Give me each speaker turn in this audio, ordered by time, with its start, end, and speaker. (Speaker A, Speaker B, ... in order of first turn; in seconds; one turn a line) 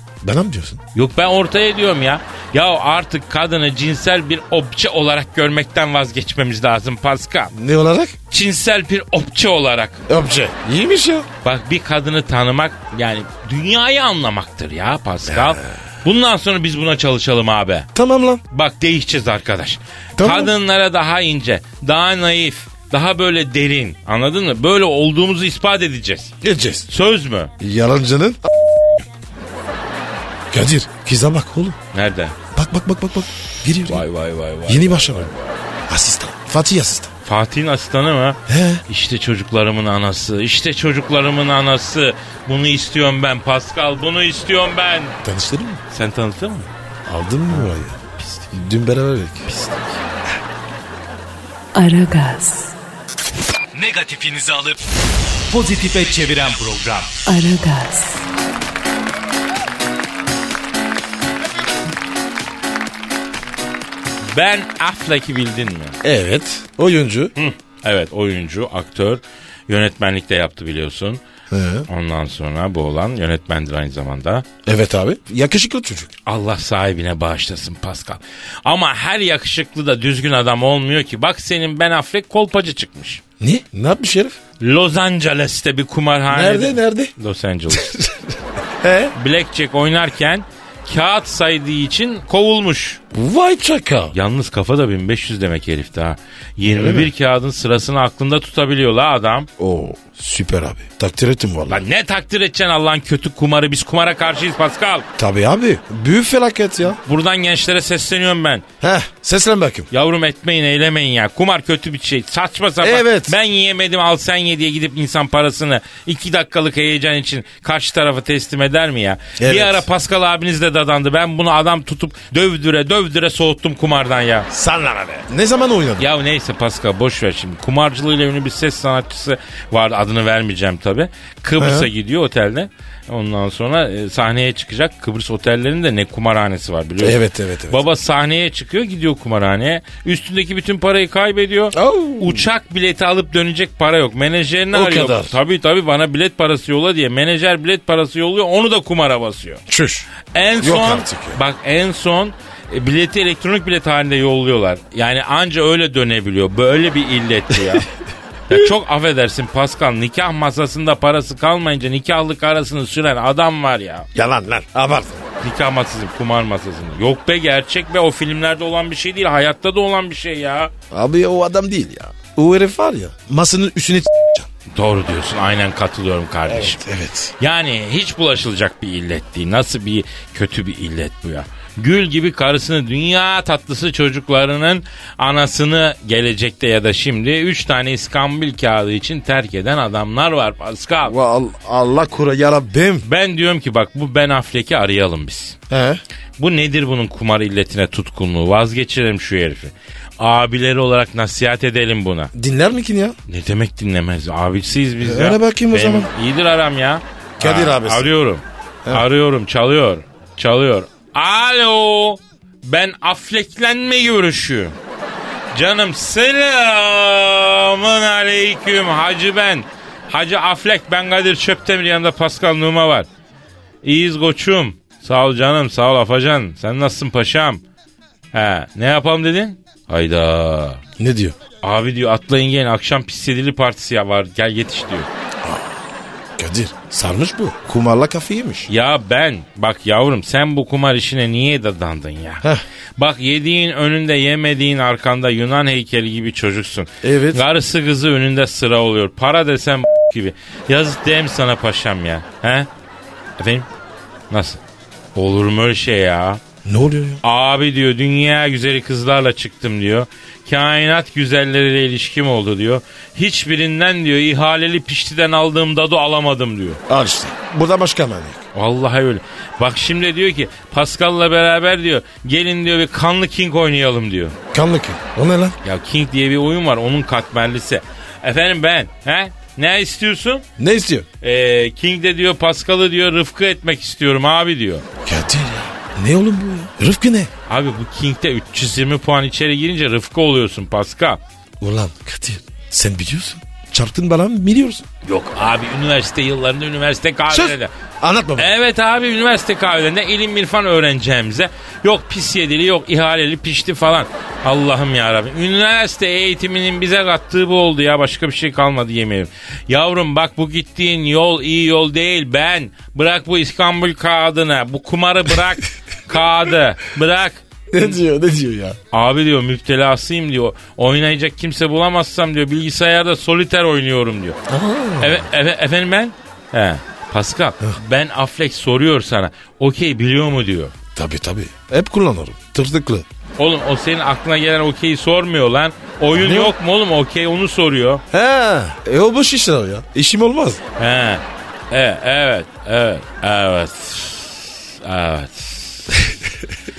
Speaker A: 0.2-0.8
Speaker B: 0.9-7.5
Speaker A: 7.5-8.2
Speaker B: 8.3-10.0
Speaker A: 10.1-11.3
Speaker B: 11.4-17.9
Speaker A: 15.3-15.6
Speaker A: 17.9-18.4
Speaker B: 18.5-26.3
Speaker A: 20.2-20.5
Speaker A: 26.4-26.9
Speaker B: 26.9-27.5
Speaker A: 27.6-28.5
Speaker A: 30.5-31.8
Speaker B: 31.9-32.4
Speaker A: 32.5-34.0
Speaker B: 33.9-35.5
Speaker A: 34.7-35.3
Speaker A: 35.9-37.1
Speaker B: 37.2-45.2
Speaker A: 38.5-38.8
Speaker A: 45.2-45.8
Speaker B: 45.9-46.7
Speaker A: 47.0-48.0
Speaker B: 47.5-48.5
Speaker A: 48.5-49.5
Speaker B: 49.5-50.0
Speaker C: 51.7-52.8
Speaker D: 53.7-54.8
Speaker D: 55.5-57.2
Speaker C: 57.2-58.2
Speaker B: 64.3-66.0
Speaker A: 66.0-67.3
Speaker B: 67.4-71.2
Speaker A: 71.5-71.9
Speaker B: 71.9-74.5
Speaker A: 74.7-76.1
Speaker B: 76.2-83.2
Speaker A: 83.4-84.4
Speaker B: 84.6-88.0
Speaker A: 86.3-87.1
Speaker A: 87.7-88.1
Speaker A: 88.8-89.1
Speaker B: 89.1-93.0
Speaker A: 93.1-94.2
Speaker B: 94.1-99.5
Speaker A: 96.7-97.1
Speaker A: 99.6-101.8
Speaker B: 101.7-105.0
Speaker A: 105.2-107.0
Speaker B: 107.0-108.6
Speaker A: 108.8-109.9
Speaker B: 109.9-124.5
Speaker A: 112.8-113.4
Speaker A: 119.4-119.8
Speaker A: 124.5-126.1
Speaker B: 126.0-149.6
Speaker A: 131.6-131.9
Speaker A: 137.0-137.8
Speaker A: 141.7-142.5
Speaker A: 144.7-145.3
Speaker A: 149.7-150.1
Speaker B: 150.3-157.9
Speaker A: 150.6-151.4
Speaker B: 158.5-164.1
Speaker A: 164.1-165.2
Speaker B: 165.4-170.7
Speaker A: 170.9-174.5
Speaker B: 174.7-176.8
Speaker A: 176.5-177.3
Speaker B: 177.4-191.1
Speaker A: 191.0-193.0
Speaker B: 193.0-195.6
Speaker A: 195.7-196.0
Speaker B: 196.4-202.3
Speaker A: 202.3-203.2
Speaker B: 203.3-214.8
Speaker A: 205.0-206.1
Speaker A: 207.4-208.1
Speaker B: 215.5-223.1
Speaker B: 223.8-227.6
Speaker B: 228.3-230.8
Speaker A: 231.0-231.4
Speaker B: 231.6-235.1
Speaker A: 235.4-235.8
Speaker A: 236.4-238.7
Speaker B: 238.7-242.4
Speaker B: 243.0-252.7
Speaker A: 247.0-247.4
Speaker B: 253.4-253.7
Speaker B: 254.3-254.6
Speaker B: 255.1-256.4
Speaker A: 256.6-257.2
Speaker B: 257.2-266.8
Speaker A: 266.9-268.4
Speaker B: 268.5-274.4
Speaker A: 274.5-275.6
Speaker B: 275.6-280.4
Speaker A: 280.6-281.1
Speaker B: 281.2-284.9
Speaker A: 285.0-287.3
Speaker B: 287.5-291.2
Speaker A: 291.6-294.9
Speaker B: 295.0-297.7
Speaker A: 297.3-298.5
Speaker B: 298.4-318.0
Speaker A: 317.7-318.8
Speaker B: 318.9-324.4
Speaker A: 324.5-325.3
Speaker B: 325.0-330.7
Speaker A: 330.9-333.1
Speaker B: 333.4-338.0
Speaker A: 336.1-336.6
Speaker A: 338.1-340.6
Speaker B: 340.8-346.1